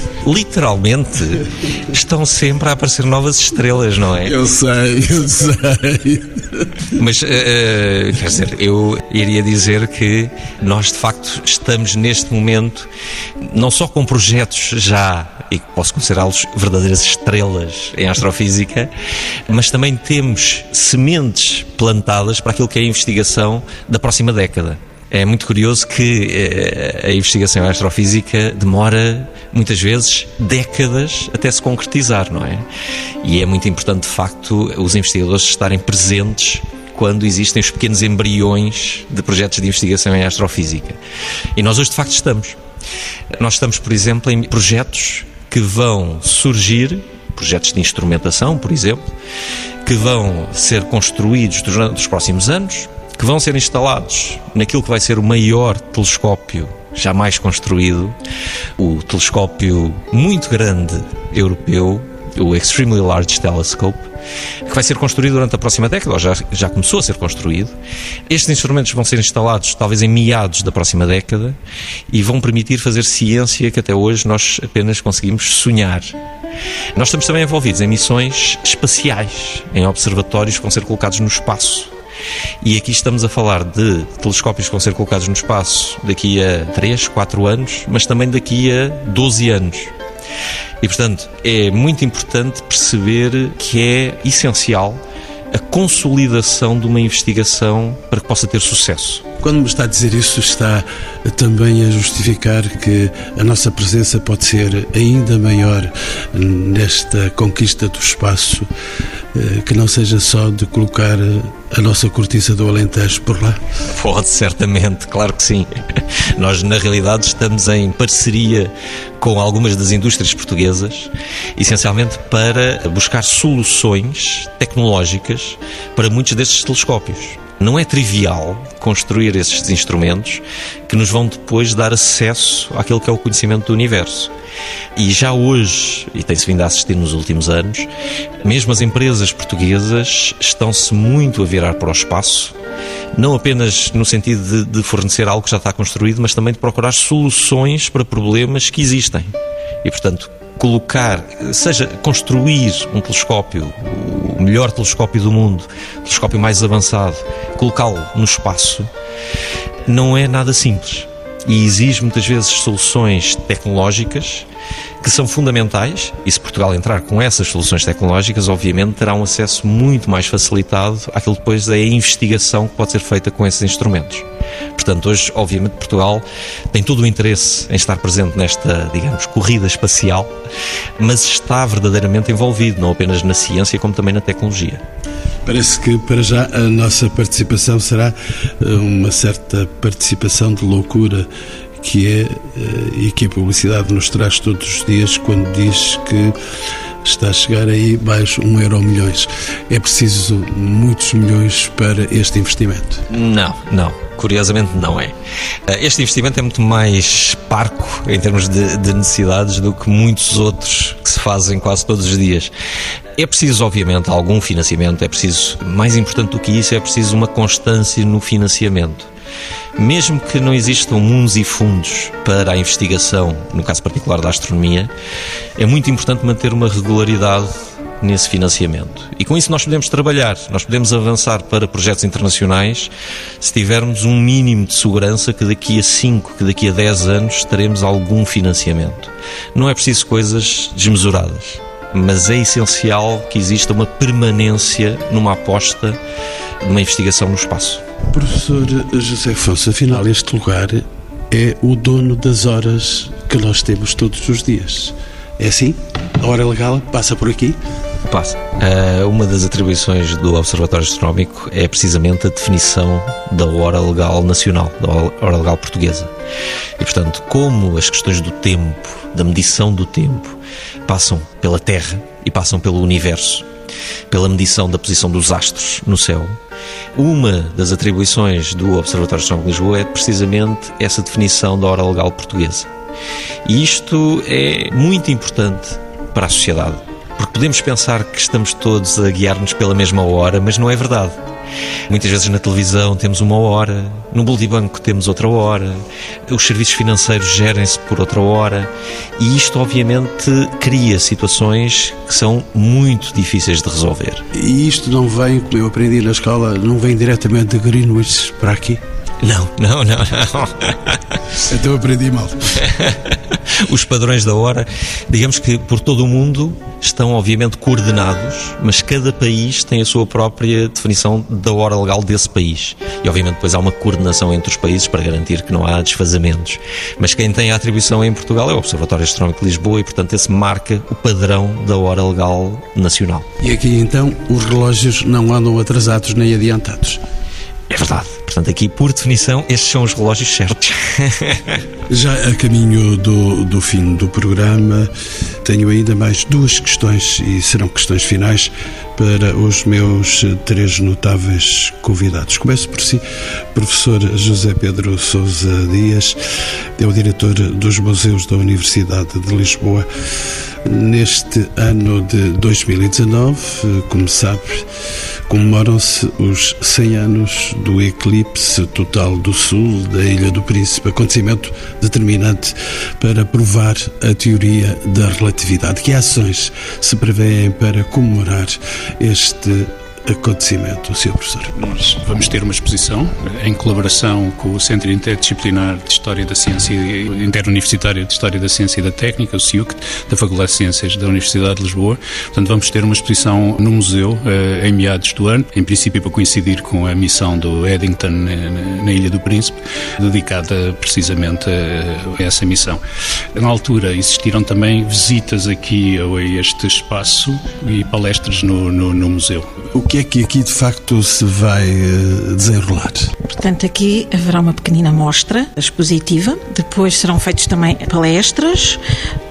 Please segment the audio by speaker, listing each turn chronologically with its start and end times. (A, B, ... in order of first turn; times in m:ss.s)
0:00.2-0:04.3 A
0:04.2-0:06.7 B
0:06.9-0:12.9 A
0:13.4-0:18.9 A
0:19.5-0:32.6 A
0:33.2-0:41.0 A
0:41.6-0:42.6 A
0:43.4-0:49.0 A
0:49.8-0:58.1 A
0:58.8-1:04.1 A
1:04.6-1:07.7 A
1:08.3-1:11.6 A
1:12.1-1:16.1 A
1:16.9-1:21.9 A
1:22.6-1:29.9 A
1:30.8-1:39.2 A
1:39.4-1:48.7 B
1:49.3-1:53.6 B
1:53.9-1:55.7 A
1:56.4-2:14.3 A
2:15.0-2:17.9 A
2:18.4-2:22.5 A
2:23.1-2:38.9 A
2:39.9-2:44.5 A
2:45.0-3:00.3 A
3:01.0-3:04.8 A
3:05.4-3:11.3 B
3:11.8-3:16.3 B
3:17.0-3:23.0 B
3:23.1-3:25.1 A
3:25.7-3:32.5 A
3:33.2-3:39.1 A
3:39.8-3:44.9 A
3:45.6-4:06.0 A
4:06.6-4:07.8 A
4:08.1-4:17.6 B
4:18.1-4:26.1 A
4:26.8-4:33.4 A
4:34.1-4:36.4 A
4:36.9-4:42.7 A
4:43.4-4:51.2 A
4:51.9-5:04.2 A
5:04.3-5:08.8 B
5:09.2-5:11.1 A
5:11.4-5:12.6 B
5:12.6-5:33.3 A
5:33.4-5:37.0 B
5:37.7-5:41.6 A
5:41.9-5:44.9 B
5:45.4-5:53.0 B
5:53.5-5:56.2 B
5:56.8-5:59.8 B
6:00.6-6:04.7 B
6:05.3-6:21.5 B
6:21.6-6:42.8 C
6:43.3-6:49.5 C
6:49.7-6:53.1 B
6:53.2-6:58.8 D